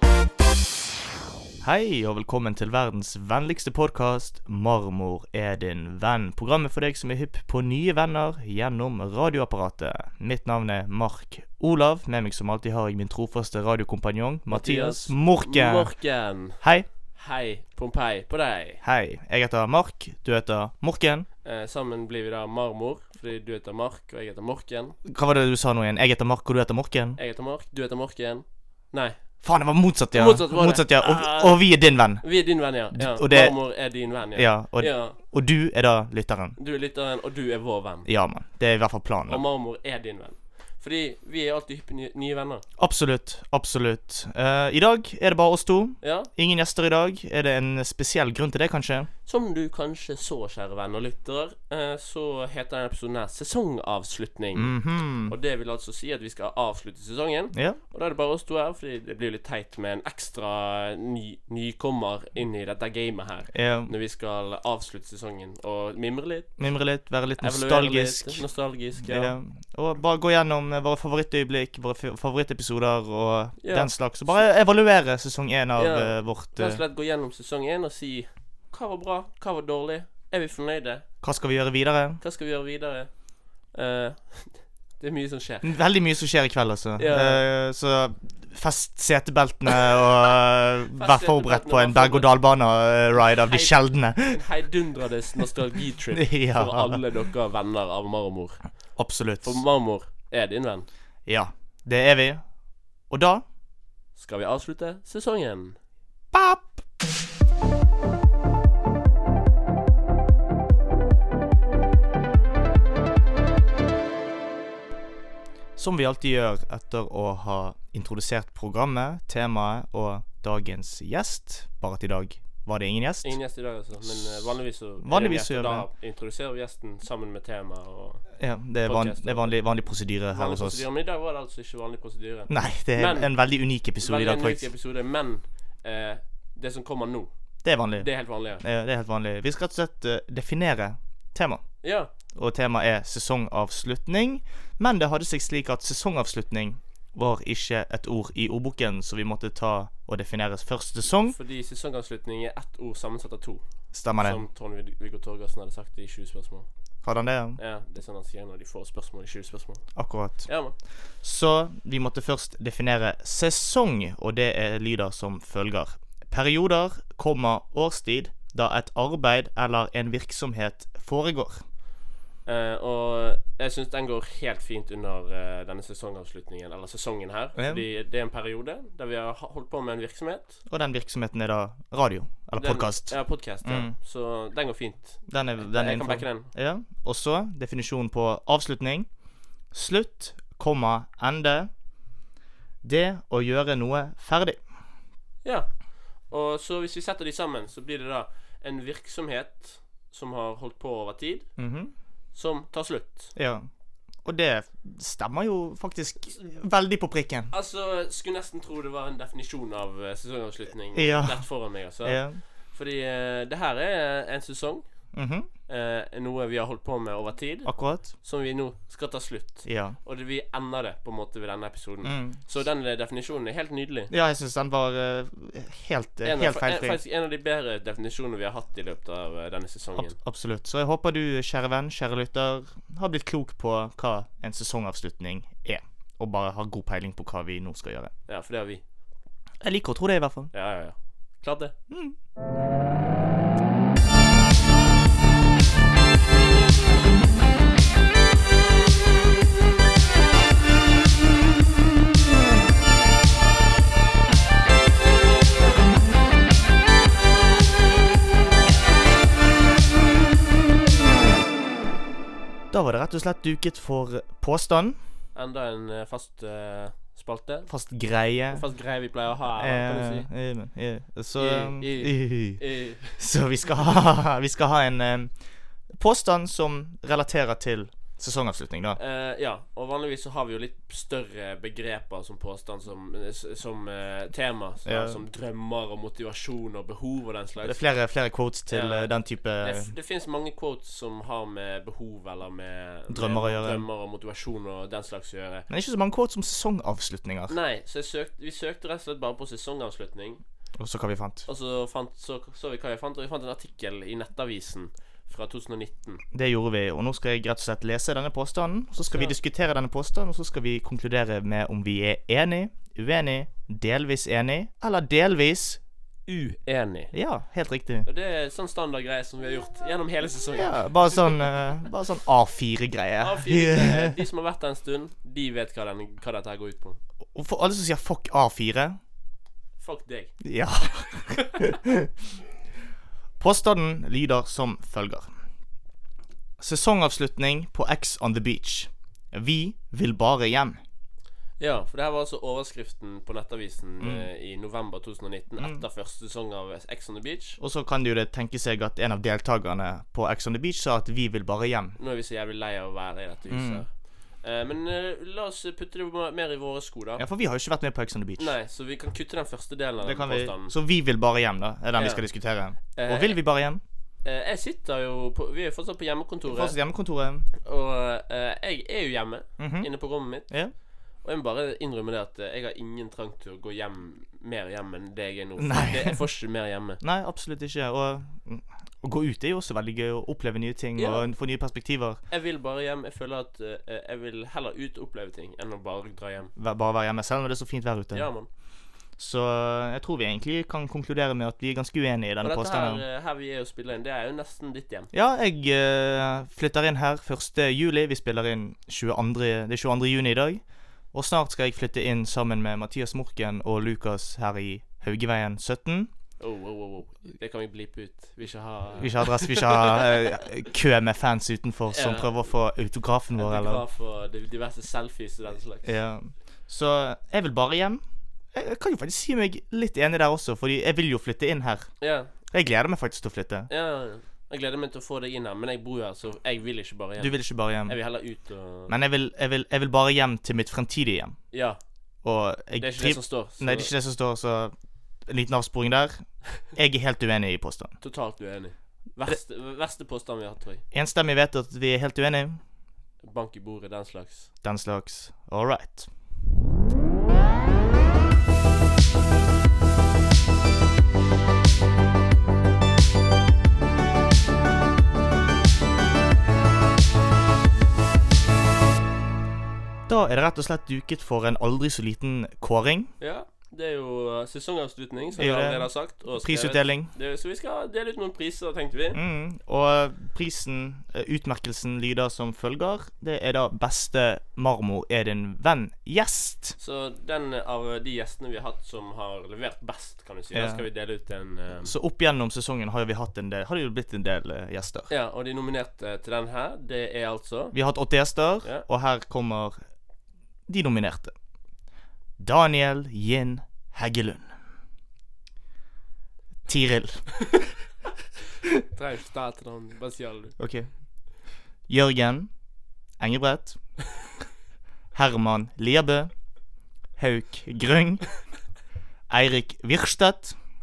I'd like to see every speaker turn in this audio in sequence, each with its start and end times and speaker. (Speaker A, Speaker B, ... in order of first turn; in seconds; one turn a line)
Speaker A: 1.6-15.9
Speaker B: 14.5-16.6
Speaker A: 16.6-16.9
Speaker B: 17.1-18.8
Speaker A: 18.8-21.3
Speaker B: 21.4-25.0
Speaker A: 25.1-27.2
Speaker B: 27.2-29.2
Speaker A: 29.4-32.2
Speaker B: 30.1-31.6
Speaker B: 32.2-35.2
Speaker A: 32.9-33.6
Speaker A: 34.4-36.6
Speaker B: 36.6-38.1
Speaker A: 38.1-39.4
Speaker B: 39.3-42.6
Speaker A: 42.8-49.1
Speaker B: 46.0-46.3
Speaker B: 49.3-66.5
Speaker A: 54.5-55.4
Speaker A: 57.5-57.8
Speaker A: 63.5-63.9
Speaker A: 66.6-68.4
Speaker B: 67.4-69.3
Speaker A: 69.0-76.8
Speaker B: 73.6-73.9
Speaker B: 75.8-81.1
Speaker A: 81.2-82.2
Speaker B: 82.2-83.1
Speaker B: 83.7-85.7
Speaker A: 85.6-94.4
Speaker B: 87.0-87.4
Speaker B: 91.0-92.3
Speaker B: 93.3-98.6
Speaker A: 96.1-97.0
Speaker A: 99.0-99.6
Speaker B: 99.4-100.9
Speaker A: 101.3-102.4
Speaker A: 103.1-103.4
Speaker B: 104.2-105.8
Speaker A: 106.3-106.7
Speaker A: 115.8-123.4
Speaker B: 123.2-128.3
Speaker A: 124.0-125.9
Speaker A: 128.4-130.8
Speaker B: 128.8-129.5
Speaker B: 130.3-133.3
Speaker A: 132.5-134.7
Speaker B: 134.0-137.3
Speaker A: 137.6-141.6
Speaker B: 138.0-138.6
Speaker B: 141.8-142.1
Speaker A: 142.3-151.4
Speaker B: 151.3-153.6
Speaker A: 153.9-154.4
Speaker B: 154.2-156.7
Speaker A: 157.0-157.6
Speaker B: 157.6-159.9
Speaker A: 160.0-160.5
Speaker B: 160.4-160.8
Speaker A: 161.2-171.6
Speaker B: 172.5-180.6
Speaker A: 177.6-177.8
Speaker A: 180.7-183.9
Speaker B: 182.6-186.5
Speaker A: 185.3-189.1
Speaker A: 189.7-191.7
Speaker A: 192.8-194.6
Speaker B: 196.3-201.5
Speaker A: 201.6-201.9
Speaker B: 202.3-203.3
Speaker A: 203.3-203.7
Speaker A: 204.2-207.5
Speaker B: 207.5-214.8
Speaker A: 210.9-211.5
Speaker A: 212.0-212.4
Speaker A: 215.1-215.5
Speaker B: 215.7-224.1
Speaker A: 217.7-218.1
Speaker A: 219.7-220.0
Speaker A: 222.0-222.4
Speaker A: 224.1-227.0
Speaker B: 226.2-230.2
Speaker A: 230.0-238.1
Speaker B: 238.3-238.8
Speaker A: 239.6-240.5
Speaker B: 240.5-241.7
Speaker A: 241.9-242.2
Speaker A: 262.7-265.0
Speaker B: 265.4-267.7
Speaker A: 267.7-268.7
Speaker B: 268.5-270.3
Speaker A: 269.5-275.3
Speaker B: 271.4-273.2
Speaker A: 275.9-279.0
Speaker B: 279.0-287.8
Speaker A: 284.9-285.2
Speaker A: 287.6-289.9
Speaker B: 288.7-289.1
Speaker B: 289.6-295.7
Speaker A: 293.1-293.8
Speaker A: 295.7-297.6
Speaker B: 297.5-300.4
Speaker A: 300.8-301.4
Speaker B: 301.5-306.2
Speaker A: 306.3-315.8
Speaker B: 316.3-317.1
Speaker A: 317.1-318.1
Speaker B: 318.1-321.4
Speaker A: 320.6-324.2
Speaker B: 323.2-327.0
Speaker A: 327.3-329.0
Speaker B: 329.8-331.7
Speaker A: 330.4-332.1
Speaker A: 333.4-335.3
Speaker A: 336.6-340.8
Speaker B: 341.6-347.6
Speaker A: 344.0-344.3
Speaker A: 347.6-352.0
Speaker B: 352.0-357.2
Speaker A: 353.5-353.9
Speaker A: 357.2-358.6
Speaker B: 358.4-360.7
Speaker A: 360.0-363.8
Speaker B: 362.0-362.2
Speaker B: 362.9-363.4
Speaker B: 364.2-366.8
Speaker A: 366.5-367.5
Speaker B: 367.6-370.5
Speaker A: 369.6-369.9
Speaker A: 370.5-370.7
Speaker B: 371.2-377.0
Speaker A: 375.6-376.2
Speaker A: 377.0-382.2
Speaker B: 381.0-381.3
Speaker B: 382.3-386.5
Speaker A: 386.6-388.3
Speaker B: 388.1-388.5
Speaker A: 389.2-393.0
Speaker B: 392.4-395.1
Speaker A: 395.1-406.1
Speaker B: 406.4-410.4
Speaker A: 409.0-413.8
Speaker B: 411.9-412.5
Speaker B: 413.4-415.9
Speaker A: 415.8-418.0
Speaker A: 418.5-421.9
Speaker B: 422.0-422.3
Speaker A: 422.5-423.7
Speaker B: 423.7-428.9
Speaker A: 427.2-428.0
Speaker A: 428.9-431.4
Speaker B: 431.5-431.8
Speaker A: 432.2-434.7
Speaker B: 432.8-433.9
Speaker A: 435.3-437.9
Speaker B: 438.0-440.8
Speaker A: 440.9-442.6
Speaker B: 443.2-444.5
Speaker A: 444.6-446.1
Speaker A: 460.1-463.1
Speaker B: 463.2-469.2
Speaker A: 465.4-467.1
Speaker A: 469.1-476.8
Speaker B: 476.8-481.9
Speaker A: 480.5-480.9
Speaker A: 481.8-485.1
Speaker B: 485.1-487.8
Speaker A: 487.7-489.8
Speaker A: 490.7-491.3
Speaker A: 492.4-494.5
Speaker A: 496.7-497.3
Speaker B: 498.9-500.6
Speaker A: 500.6-500.9
Speaker A: 501.9-502.5
Speaker A: 503.2-503.8
Speaker A: 505.1-506.3
Speaker A: 507.2-508.2
Speaker A: 509.3-510.6